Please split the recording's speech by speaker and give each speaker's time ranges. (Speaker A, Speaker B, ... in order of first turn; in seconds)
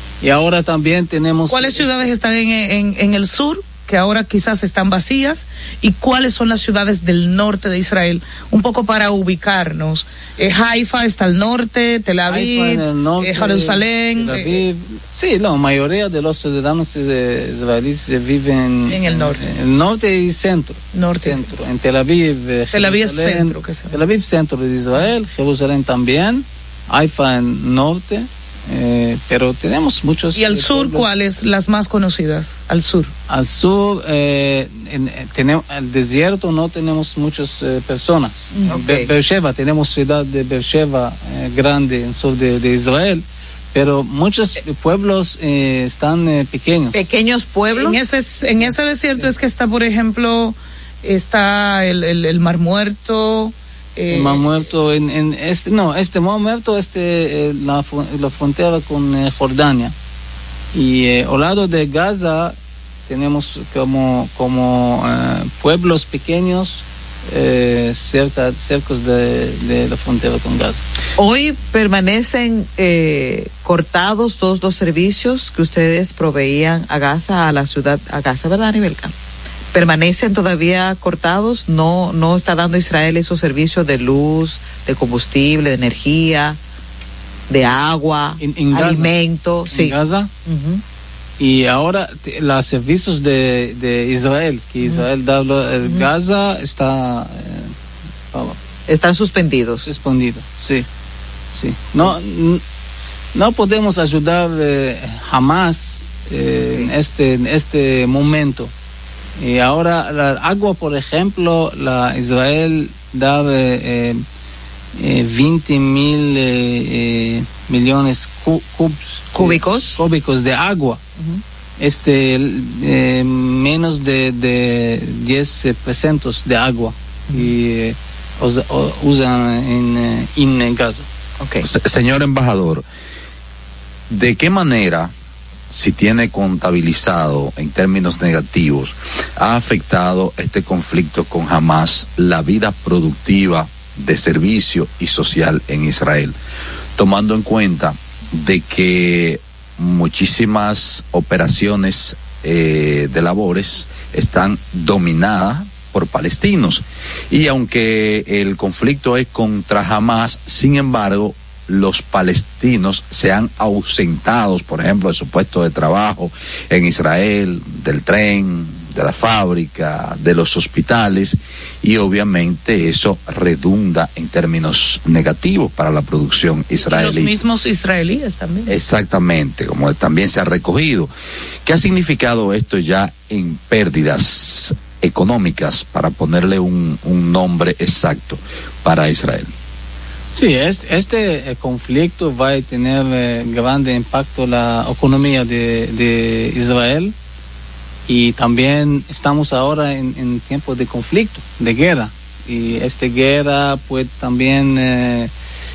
Speaker A: 0.2-1.9, 12.3-31.1, 33.3-46.9, 48.6-49.3, 54.1-59.9, 60.7-62.5, 63.1-70.8, 88.4-89.1, 89.7-90.3, 91.4-97.7, 98.3-98.6, 99.8-100.8, 101.5-102.6, 103.3-108.7, 109.4-114.2, 115.0-121.0, 121.8-131.1, 190.3-197.1, 198.1-205.3
Speaker B: 1.5-14.6, 18.9-19.4, 20.9-21.5, 22.7-24.0, 30.4-33.1, 47.8-54.4, 176.9-178.7
Speaker C: 38.7-39.1, 46.9-48.0, 71.2-79.1, 79.7-86.6, 87.5-90.8, 98.9-99.9, 119.3-120.0, 131.4-131.7
Speaker D: 131.6-132.8, 134.1-135.1, 135.7-146.4, 147.0-177.3, 178.7-181.1, 181.7-189.5